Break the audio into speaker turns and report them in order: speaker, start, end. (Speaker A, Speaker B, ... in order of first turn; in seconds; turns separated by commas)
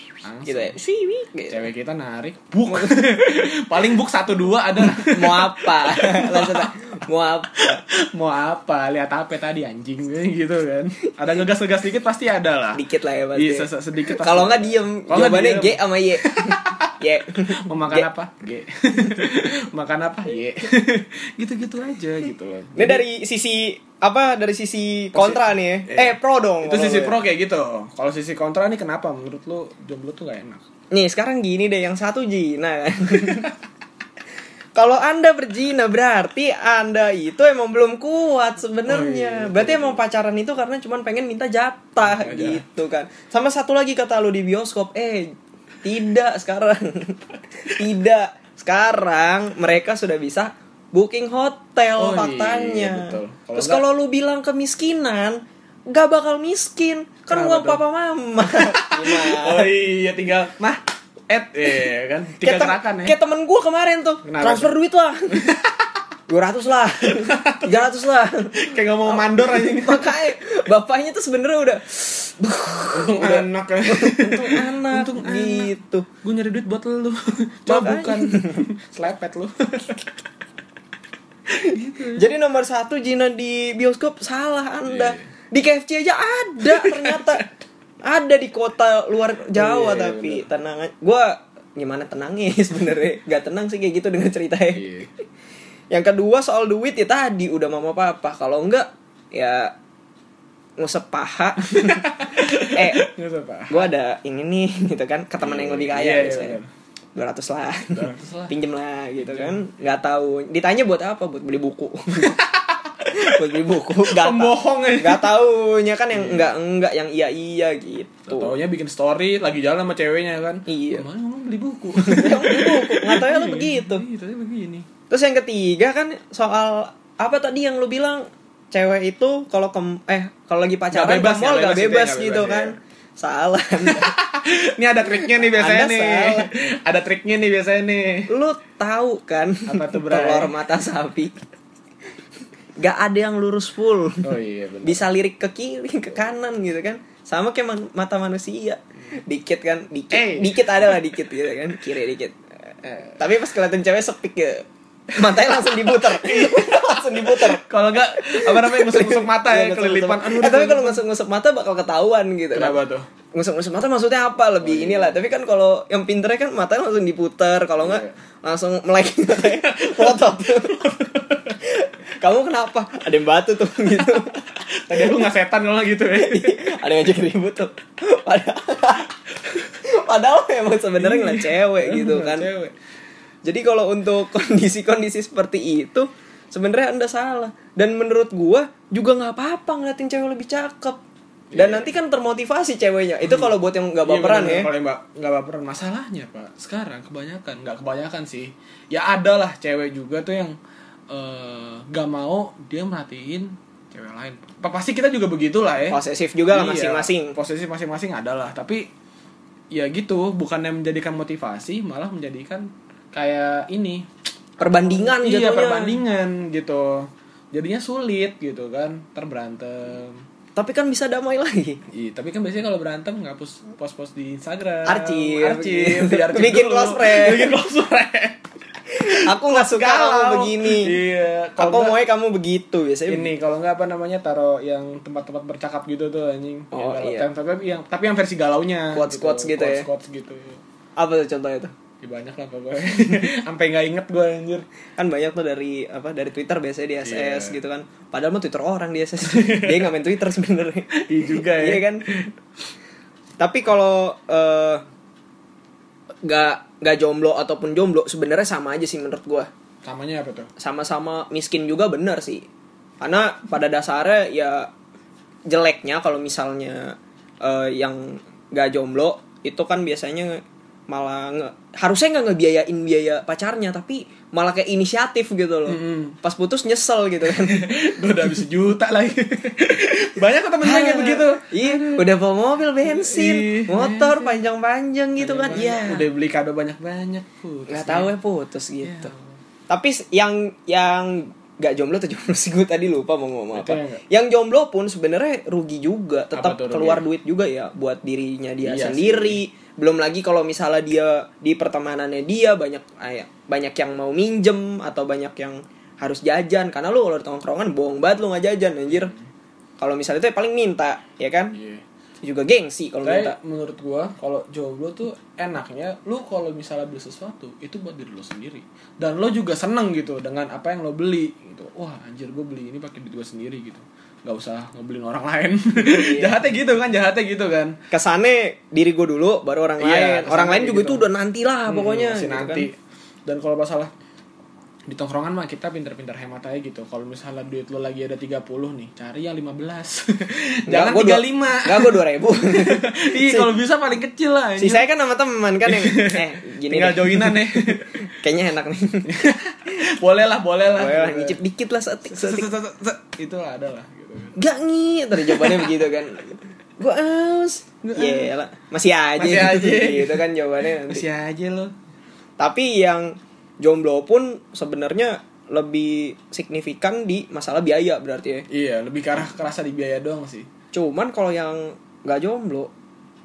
Speaker A: 0.2-0.7, Speaker B: 0.5-1.6, Speaker A: 1.5-6.7, Speaker B: 2.7-3.0, Speaker B: 4.8-7.8, Speaker A: 7.5-12.8, Speaker B: 12.8-18.1, Speaker A: 13.3-16.9, Speaker A: 17.6-23.0, Speaker B: 22.8-27.2, Speaker A: 25.1-30.6, Speaker B: 30.9-33.5, Speaker B: 34.8-45.3, Speaker A: 38.9-40.0, Speaker A: 42.0-42.6, Speaker B: 45.8-59.7, Speaker A: 52.0-53.8, Speaker A: 57.3-57.8, Speaker A: 58.5-63.1, Speaker B: 62.4-65.4, Speaker A: 64.2-64.7, Speaker A: 65.3-65.9, Speaker B: 66.3-76.1, Speaker A: 67.2-67.9, Speaker A: 68.5-70.2, Speaker A: 72.9-80.1, Speaker B: 77.7-78.6, Speaker A: 81.5-82.2, Speaker B: 82.2-87.5, Speaker A: 84.8-85.2, Speaker A: 86.7-87.4, Speaker B: 88.0-95.0, Speaker A: 89.5-90.5, Speaker A: 94.7-95.1, Speaker B: 95.9-99.7, Speaker B: 100.8-103.1, Speaker A: 101.7-103.9, Speaker B: 103.7-106.6, Speaker A: 105.4-106.7, Speaker B: 107.1-112.3, Speaker A: 107.9-108.5, Speaker A: 109.2-109.6, Speaker A: 112.1-113.4, Speaker B: 113.1-118.5, Speaker A: 114.0-115.3, Speaker A: 116.1-116.5, Speaker A: 118.3-124.9, Speaker B: 120.7-121.0, Speaker B: 122.0-124.0, Speaker B: 125.1-134.1, Speaker A: 130.9-132.7, Speaker A: 133.8-138.3, Speaker B: 135.5-136.5, Speaker B: 138.3-141.3, Speaker A: 139.7-140.5, Speaker B: 142.8-144.2, Speaker A: 144.2-145.0, Speaker B: 144.8-152.3, Speaker A: 150.1-151.0, Speaker A: 152.8-153.3, Speaker B: 153.2-162.8, Speaker A: 155.5-161.0, Speaker A: 162.5-163.1, Speaker B: 163.3-170.9, Speaker A: 164.6-165.2, Speaker A: 167.8-168.1, Speaker A: 169.3-171.6, Speaker B: 171.6-174.4, Speaker A: 174.0-176.8, Speaker B: 174.9-175.2, Speaker B: 176.1-182.5, Speaker A: 180.9-182.7, Speaker B: 183.4-191.0, Speaker A: 191.5-191.9, Speaker B: 191.5-194.7, Speaker A: 193.2-200.6, Speaker A: 201.1-206.0, Speaker B: 205.9-207.3, Speaker A: 206.5-208.9, Speaker A: 209.7-214.1, Speaker B: 214.6-216.0, Speaker A: 214.6-220.2, Speaker B: 220.5-221.8, Speaker A: 221.9-232.0, Speaker B: 224.8-227.5, Speaker B: 228.9-230.9, Speaker B: 231.6-233.3, Speaker A: 233.1-240.6, Speaker B: 236.7-237.3, Speaker B: 238.9-239.9, Speaker B: 241.0-241.7, Speaker A: 242.0-244.7, Speaker B: 245.0-252.1, Speaker A: 247.0-247.6, Speaker A: 249.3-249.9, Speaker A: 250.9-252.3, Speaker B: 253.4-254.8, Speaker B: 256.2-259.5, Speaker A: 259.8-260.5, Speaker B: 260.6-262.4, Speaker B: 263.0-264.7, Speaker B: 265.5-277.7, Speaker A: 275.7-276.2, Speaker A: 277.3-282.1, Speaker B: 280.6-286.0, Speaker A: 282.8-284.4, Speaker A: 285.2-288.1, Speaker B: 287.7-289.1, Speaker A: 288.8-289.4, Speaker B: 289.7-309.1, Speaker A: 293.5-294.0, Speaker A: 296.3-297.1, Speaker A: 298.6-299.4, Speaker B: 309.8-311.6, Speaker A: 311.5-311.8, Speaker B: 312.2-313.4, Speaker A: 313.0-327.8, Speaker B: 325.8-326.4, Speaker B: 327.9-332.7, Speaker A: 329.8-331.0, Speaker A: 331.7-333.9, Speaker A: 334.9-344.8, Speaker B: 340.7-343.5, Speaker B: 344.6-349.1, Speaker A: 345.6-348.1, Speaker A: 349.1-351.4, Speaker B: 350.7-352.5, Speaker A: 352.1-354.4, Speaker B: 354.4-361.0, Speaker A: 355.1-355.7, Speaker A: 357.8-358.3, Speaker A: 359.2-361.7, Speaker B: 362.4-368.4, Speaker A: 368.5-370.5, Speaker B: 370.7-372.7